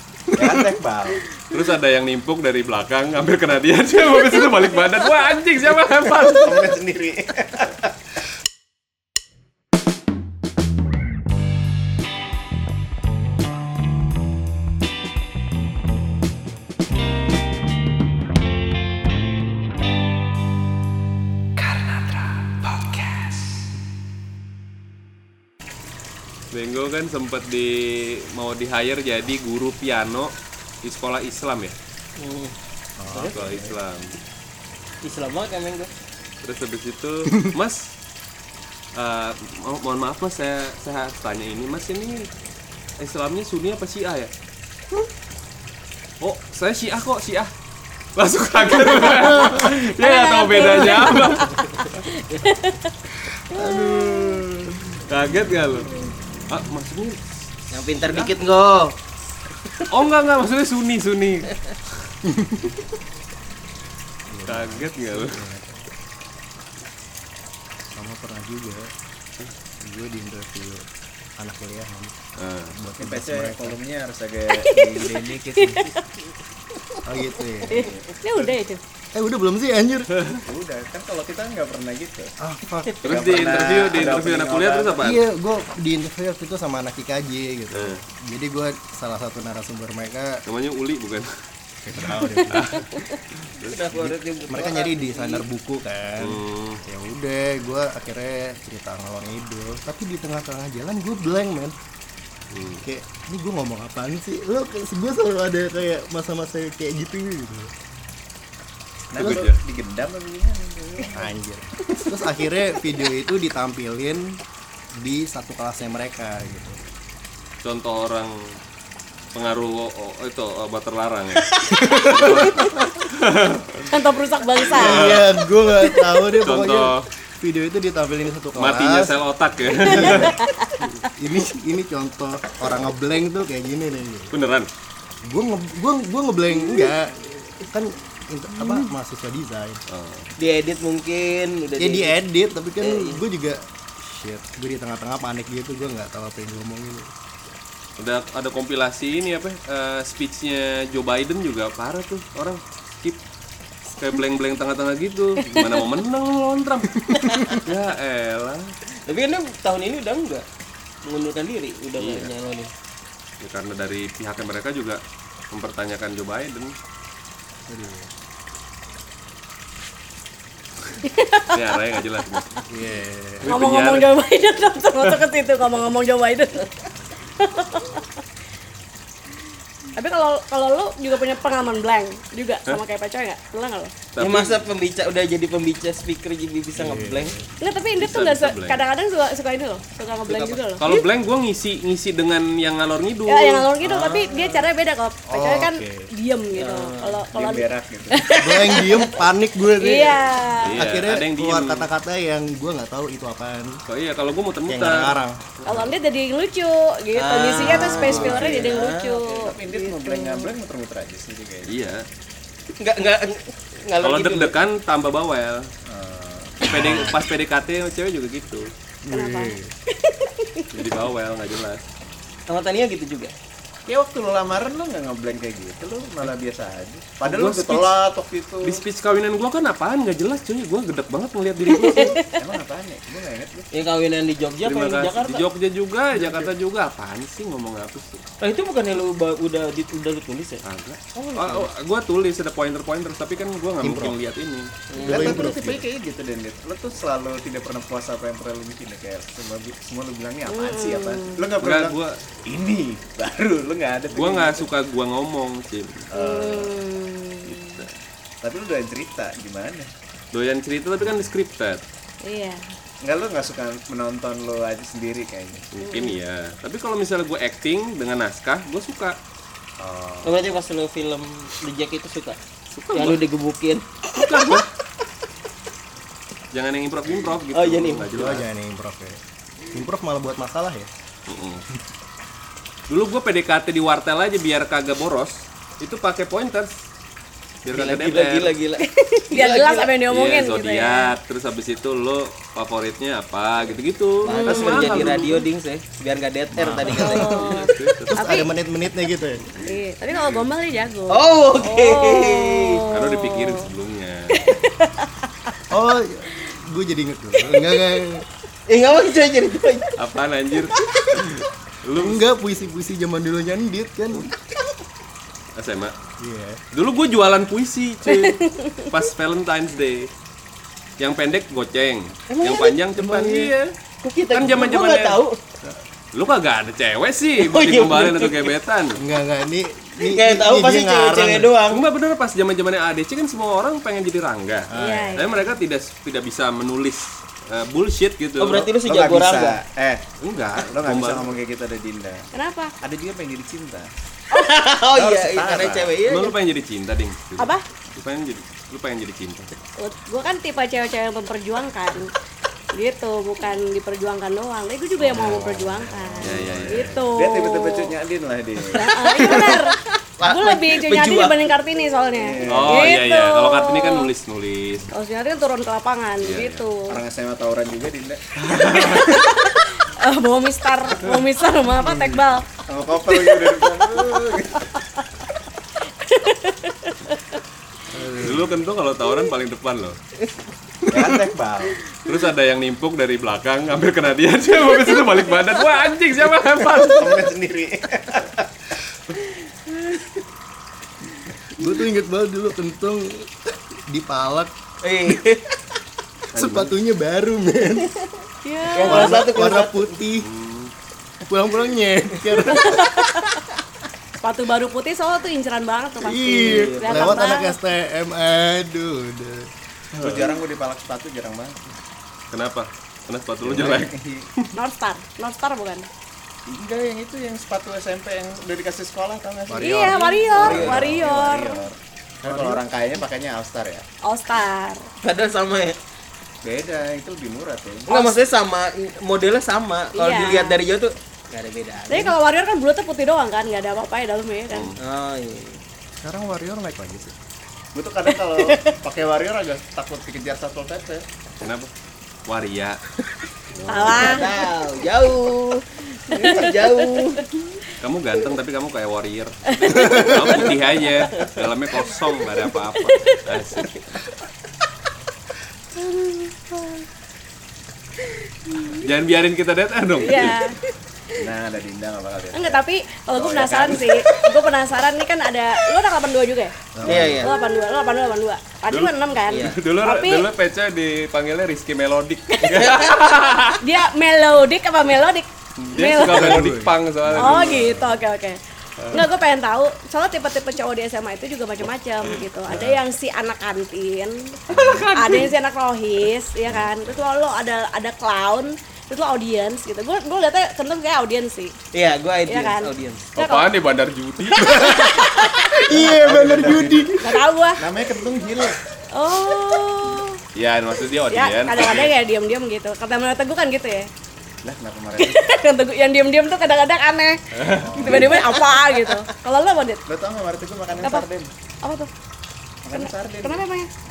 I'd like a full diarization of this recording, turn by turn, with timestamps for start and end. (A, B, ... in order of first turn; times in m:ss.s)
0:00.3-0:01.2 A
0:01.5-0:06.7 B
0:06.0-0:07.9 A
0:26.5-0:31.8 B
0:32.2-0:33.4 C
0:33.0-0:33.7 D
0:33.2-0:34.1 B
0:35.0-0:35.9 C
0:36.4-0:37.9 B
0:38.9-0:42.3 B
0:43.0-0:44.3 B
0:46.2-0:47.5 B
0:48.2-0:51.9 B
0:48.9-0:52.9 E
0:53.5-0:54.9 D
0:53.5-0:54.4 E
0:55.1-0:55.9 B
0:56.5-0:58.4 B
0:57.7-0:59.0 C
0:59.9-1:01.6 B
1:02.2-1:02.8 D
1:04.3-1:05.8 D
1:04.4-1:05.4 B
1:07.9-1:08.9 D
1:09.8-1:10.8 D
1:11.4-1:12.1 D
1:12.4-1:12.7 B
1:12.7-1:13.8 D
1:13.0-1:15.9 A
1:14.5-1:16.0 E
1:17.0-1:17.9 D
1:17.7-1:18.8 E
1:17.9-1:18.4 A
1:19.1-1:20.1 D
1:20.4-1:22.3 A
1:22.4-1:23.0 D
1:23.0-1:25.2 B
1:23.0-1:25.1 A
1:25.0-1:30.4 D
1:27.7-1:28.0 B
1:30.4-1:31.3 B
1:31.8-1:32.7 D
1:32.5-1:33.8 B
1:33.6-1:35.4 C
1:33.9-1:41.7 D
1:36.2-1:36.8 B
1:42.5-1:42.8 B
1:42.8-1:47.7 D
1:49.1-1:51.3 A
1:49.2-1:49.6 B
1:49.2-1:49.5 D
1:51.1-1:54.4 D
1:55.0-1:56.8 D
1:57.6-1:58.6 B
1:59.3-2:03.8 B
2:01.7-2:02.6 D
2:03.9-2:05.1 E
2:04.6-2:09.2 D
2:04.7-2:05.4 B
2:06.4-2:07.1 B
2:08.5-2:10.4 B
2:09.8-2:10.3 D
2:09.9-2:11.0 E
2:11.2-2:14.4 D
2:14.3-2:14.7 B
2:15.2-2:19.8 D
2:16.5-2:16.9 C
2:19.9-2:20.3 B
2:20.4-2:22.2 C
2:21.8-2:27.1 D
2:22.8-2:23.2 C
2:28.0-2:33.2 B
2:33.9-2:38.7 B
2:35.5-2:35.8 E
2:37.2-2:37.6 C
2:39.0-2:40.4 C
2:41.0-2:42.7 C
2:42.0-2:42.3 B
2:43.4-2:45.0 B
2:45.5-2:46.7 B
2:47.7-2:48.1 D
2:51.0-2:51.6 E
2:51.5-2:52.6 B
2:52.7-2:53.6 D
2:53.4-2:54.1 B
2:53.5-2:56.7 E
2:57.2-2:58.0 E
2:59.9-3:03.9 E
3:04.1-3:04.6 B
3:04.2-3:07.3 C
3:06.8-3:07.5 D
3:07.6-3:10.8 E
3:08.0-3:08.8 B
3:10.3-3:11.0 C
3:10.8-3:13.7 B
3:13.3-3:19.1 E
3:13.8-3:14.3 D
3:15.3-3:16.1 D
3:16.5-3:17.3 C
3:17.2-3:18.3 A
3:18.4-3:23.8 D
3:19.8-3:20.8 E
3:20.6-3:21.9 B
3:23.9-3:25.2 B
3:24.6-3:25.4 D
3:25.6-3:30.5 E
3:27.1-3:29.5 C
3:27.6-3:28.5 D
3:28.0-3:28.7 A
3:29.5-3:31.7 A
3:31.6-3:32.0 B
3:32.8-3:34.6 C
3:34.0-3:35.7 B
3:35.8-3:36.7 A
3:36.6-3:38.7 B
3:36.7-3:37.2 D
3:39.0-3:39.7 D
3:39.1-3:40.8 E
3:40.7-3:41.8 B
3:42.5-3:43.3 C
3:43.9-3:48.8 A
3:47.2-3:48.0 B
3:48.6-3:52.2 B
3:51.7-3:52.4 E
3:52.3-3:53.7 A
3:53.7-3:55.4 C
3:54.6-3:58.2 B
3:56.1-3:56.5 C
3:58.4-4:00.6 C
4:00.6-4:04.7 B
4:01.1-4:01.7 C
4:03.8-4:04.2 D
4:04.9-4:05.4 C
4:05.0-4:05.8 D
4:05.0-4:14.7 A
4:10.5-4:11.5 E
4:11.6-4:12.2 B
4:14.1-4:16.1 B
4:16.1-4:16.8 A
4:16.1-4:17.8 E
4:17.4-4:17.9 B
4:18.4-4:19.9 A
4:20.3-4:21.8 B
4:22.2-4:22.6 E
4:23.0-4:25.7 A
4:25.7-4:29.2 B
4:25.8-4:26.2 E
4:29.8-4:30.3 A
4:30.2-4:32.4 C
4:32.7-4:33.2 B
4:32.9-4:34.5 C
4:34.1-4:34.7 B
4:36.5-4:38.4 B
4:37.5-4:38.2 C
4:38.1-4:39.2 D
4:39.7-4:40.9 D
4:41.3-4:41.6 B
4:42.9-4:46.8 B
4:47.6-4:48.5 B
4:47.7-4:49.9 C
4:48.8-4:51.2 E
4:50.1-4:55.5 B
4:54.2-4:57.7 C
4:54.2-4:54.8 E
4:56.6-4:58.3 B
4:56.6-4:57.5 D
4:57.0-4:58.5 E
4:58.1-4:59.5 D
4:59.5-5:03.7 E
5:00.1-5:00.4 B
5:01.1-5:02.9 C
5:02.9-5:04.4 B
5:04.3-5:05.2 E
5:05.7-5:08.2 D
5:07.4-5:08.0 E
5:08.7-5:09.9 C
5:10.0-5:12.2 B
5:11.1-5:14.3 D
5:15.6-5:15.9 B
5:16.2-5:16.6 D
5:16.7-5:20.1 B
5:18.1-5:18.9 E
5:21.0-5:23.7 B
5:22.3-5:25.4 C
5:24.3-5:25.2 B
5:26.1-5:29.0 B
5:27.4-5:28.5 C
5:29.0-5:31.5 D
5:30.0-5:31.8 C
5:31.7-5:38.7 B
5:34.7-5:35.2 D
5:34.8-5:35.5 E
5:38.4-5:39.6 C
5:38.6-5:40.0 A
5:40.2-5:41.4 B
5:40.7-5:42.3 A
5:42.3-5:42.7 E
5:42.8-5:43.9 A
5:44.3-5:46.3 C
5:44.9-5:45.9 A
5:46.1-5:49.5 B
5:47.4-5:47.6 E
5:49.8-5:52.1 E
5:52.7-5:57.9 E
5:55.0-5:57.0 D
5:56.2-5:57.0 B
5:57.1-5:59.5 A
5:58.7-6:04.1 E
5:58.8-6:01.4 C
6:02.1-6:02.9 A
6:02.4-6:04.9 B
6:04.9-6:07.0 E
6:06.2-6:06.6 B
6:06.9-6:08.2 A
6:08.4-6:09.2 B
6:08.6-6:12.5 E
6:11.8-6:12.2 D
6:12.7-6:14.7 A
6:13.0-6:14.0 E
6:14.7-6:15.3 E
6:16.0-6:17.4 E
6:17.9-6:18.6 D
6:18.2-6:20.0 B
6:20.9-6:21.8 A
6:22.0-6:27.2 B
6:26.8-6:28.3 A
6:31.6-6:34.5 D
6:34.8-6:35.4 C
6:36.3-6:36.7 B
6:36.3-6:38.0 D
6:38.4-6:39.0 E
6:38.7-6:40.0 C
6:38.7-6:40.3 D
6:40.2-6:40.7 B
6:41.2-6:43.2 D
6:42.5-6:43.4 E
6:44.2-6:47.5 E
6:46.0-6:49.5 D
6:46.4-6:47.2 C
6:49.9-6:50.2 B
6:50.0-6:51.6 A
6:52.3-6:54.5 B
6:53.4-6:54.3 A
6:54.5-6:55.9 E
6:56.4-7:03.8 A
6:59.5-7:00.7 D
6:59.6-7:01.6 E
7:00.0-7:01.1 C
7:02.2-7:02.6 D
7:04.0-7:04.8 E
7:05.0-7:05.8 C
7:06.4-7:07.9 A
7:07.9-7:12.2 C
7:09.9-7:10.6 E
7:11.9-7:14.7 E
7:14.5-7:14.8 B
7:14.8-7:15.6 C
7:16.0-7:17.1 A
7:17.7-7:21.0 A
7:18.1-7:18.8 E
7:21.4-7:21.7 B
7:22.3-7:22.8 B
7:23.5-7:24.2 B
7:23.6-7:24.3 E
7:23.9-7:27.6 C
7:26.1-7:26.9 E
7:27.8-7:33.7 B
7:29.5-7:30.5 E
7:32.8-7:33.6 E
7:38.5-7:38.8 E
7:38.6-7:40.4 B
7:40.0-7:40.6 E
7:41.2-7:44.1 A
7:42.3-7:46.7 E
7:46.7-7:47.2 D
7:46.8-7:47.3 C
7:47.2-7:50.3 E
7:48.7-7:53.6 B
7:49.3-7:49.6 C
7:52.3-7:52.6 E
7:52.5-7:53.0 C
7:53.6-7:56.4 E
7:55.6-7:57.9 B
7:55.9-7:57.6 D
7:57.1-8:11.5 E
7:58.8-7:59.0 B
8:02.5-8:02.8 B
8:04.5-8:05.3 B
8:04.5-8:04.8 A
8:11.7-8:13.1 C
8:12.2-8:13.5 E
8:13.2-8:14.4 B
8:14.3-8:15.7 E
8:14.4-8:17.2 D
8:15.6-8:17.0 A
8:17.0-8:17.6 E
8:17.6-8:18.6 A
8:18.9-8:20.2 E
8:20.3-8:21.9 B
8:21.1-8:23.9 E
8:24.4-8:25.2 A
8:25.0-8:29.8 E
8:27.3-8:28.2 B
8:27.5-8:28.3 A
8:28.3-8:28.9 C
8:29.9-8:31.3 A
8:30.8-8:31.1 E
8:31.6-8:31.9 E
8:32.6-8:33.4 A
8:32.7-8:33.7 E